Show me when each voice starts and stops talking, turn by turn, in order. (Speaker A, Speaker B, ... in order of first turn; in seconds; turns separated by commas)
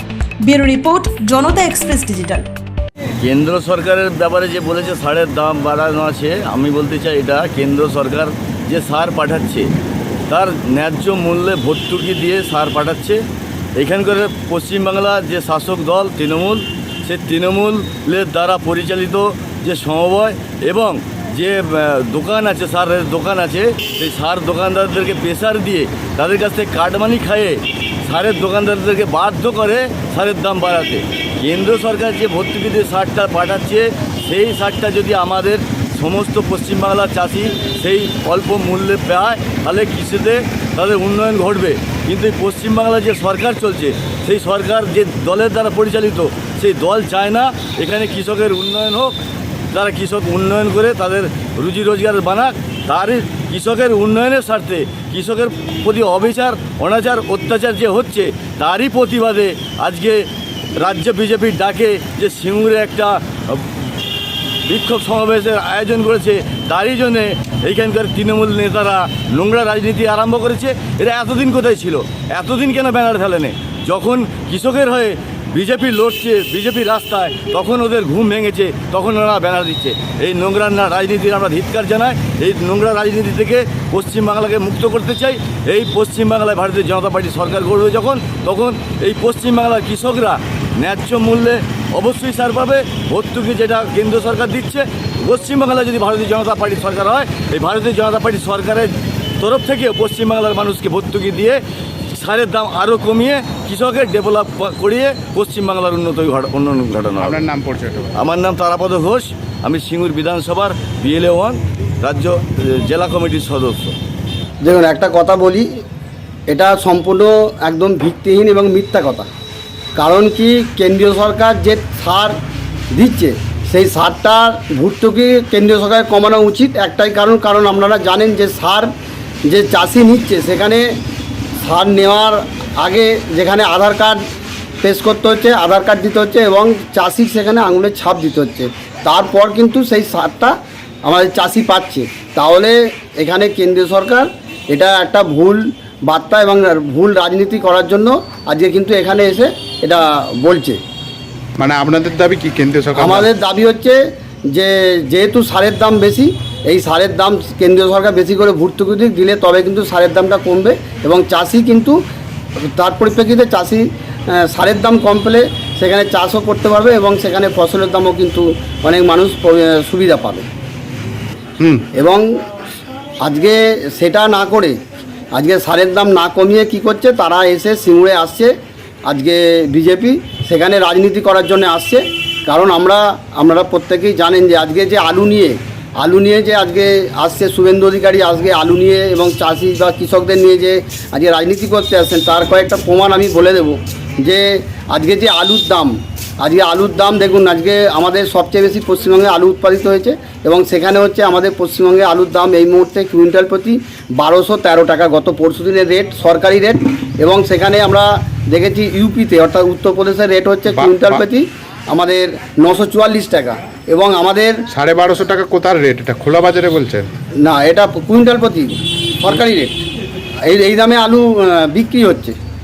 Speaker A: 0.4-2.5, Speaker B: 3.2-9.7, Speaker B: 10.3-13.2, Speaker B: 13.8-49.1, Speaker B: 49.7-60.2, Speaker B: 60.8-63.9, Speaker B: 64.7-101.6, Speaker B: 102.1-107.4, Speaker C: 107.2-108.1, Speaker B: 108.2-114.0, Speaker D: 114.6-115.7, Speaker D: 116.5-119.3, Speaker D: 120.0-122.3, Speaker D: 122.9-128.9, Speaker D: 129.5-130.9, Speaker D: 131.6-134.2, Speaker D: 134.8-150.8, Speaker C: 151.6-153.2, Speaker D: 153.0-154.0, Speaker D: 154.5-162.0, Speaker D: 162.6-170.5, Speaker C: 171.6-171.8, Speaker D: 171.9-172.2, Speaker D: 173.2-174.8, Speaker D: 175.3-178.5, Speaker D: 179.1-214.6, Speaker C: 210.7-211.2, Speaker C: 214.7-217.1, Speaker D: 217.4-219.7, Speaker D: 220.4-222.3